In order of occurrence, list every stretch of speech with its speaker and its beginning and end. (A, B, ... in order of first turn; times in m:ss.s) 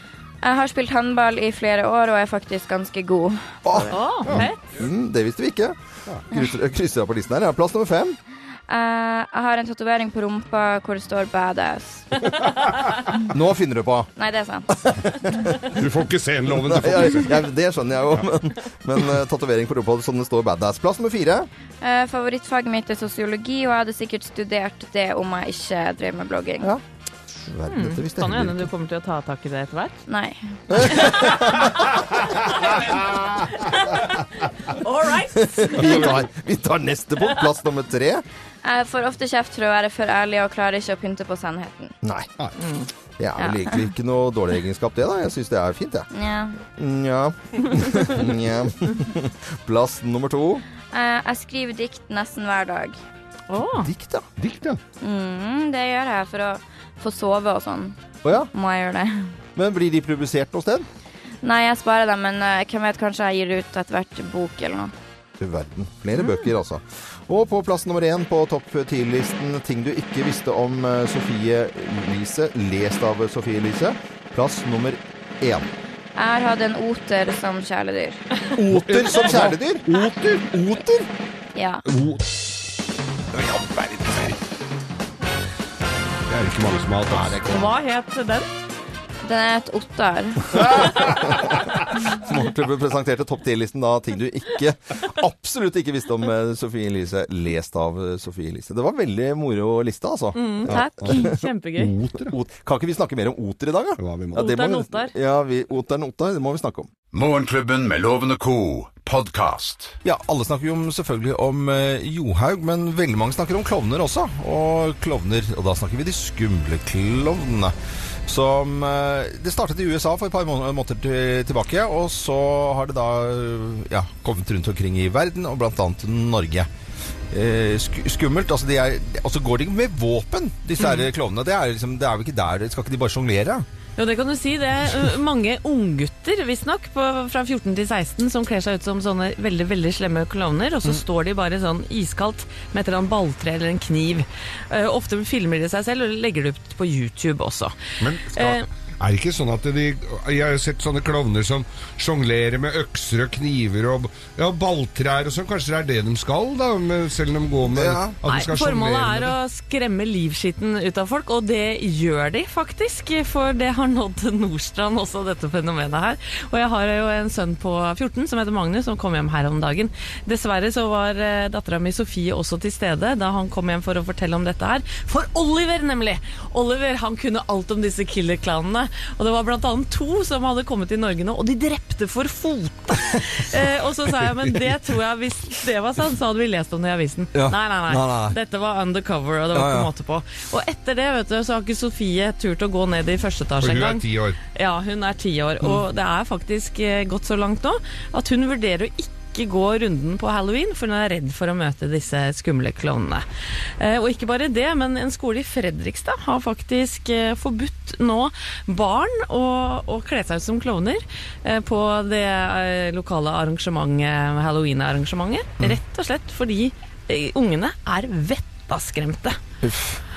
0:00.4-0:04.0 A
0:03.6-0:05.8 B
0:03.9-0:04.6 C
0:06.3-0:08.2 B
0:08.7-0:12.3 A
0:13.3-0:14.1 B
0:14.2-0:14.7 A
0:14.7-0:15.8 B
0:15.7-0:17.4 D
0:16.5-0:21.5 B
0:21.8-0:26.7 A
0:26.6-0:28.7 B
0:27.7-0:30.0 C
0:30.1-0:31.1 A
0:30.7-0:31.9 B
0:31.0-0:36.2 C
0:33.0-0:33.3 D
0:35.3-0:38.2 B
0:38.6-0:41.9 A
0:42.0-0:42.3 B
0:42.6-0:42.9 C
0:43.2-0:46.1 B
0:43.4-0:43.8 A
0:46.1-0:46.6 A
0:46.8-0:50.6 B
0:50.9-0:53.0 A
0:53.5-0:53.9 C
0:53.7-0:54.3 B
0:54.4-0:54.8 D
0:55.0-0:58.0 A
0:58.2-0:58.5 B
0:58.5-0:59.3 A
0:59.5-1:00.9 B
1:01.4-1:04.9 A
1:05.4-1:15.7 B
1:16.2-1:18.2 A
1:18.5-1:21.1 B
1:18.8-1:20.4 D
1:21.5-1:21.8 A
1:21.9-1:22.3 D
1:23.4-1:24.3 D
1:26.3-1:27.5 D
1:27.1-1:27.7 B
1:27.4-1:28.5 C
1:29.2-1:31.0 A
1:30.8-1:31.4 D
1:31.0-1:31.5 B
1:32.1-1:41.4 B
1:40.3-1:41.9 C
1:40.7-1:42.3 D
1:42.2-1:46.9 B
1:44.0-1:44.5 D
1:44.3-1:45.1 C
1:47.1-1:50.0 E
1:50.0-1:57.7 B
1:58.2-2:06.7 B
2:07.3-2:13.6 B
2:14.0-2:27.7 C
2:28.0-2:39.3 D
2:28.3-2:28.7 C
2:37.7-2:38.2 B
2:38.3-3:23.2 C
3:07.3-3:08.4 B
3:09.5-3:09.9 B
3:13.6-3:14.4 D
3:23.8-3:39.4 C
3:39.6-3:40.0 B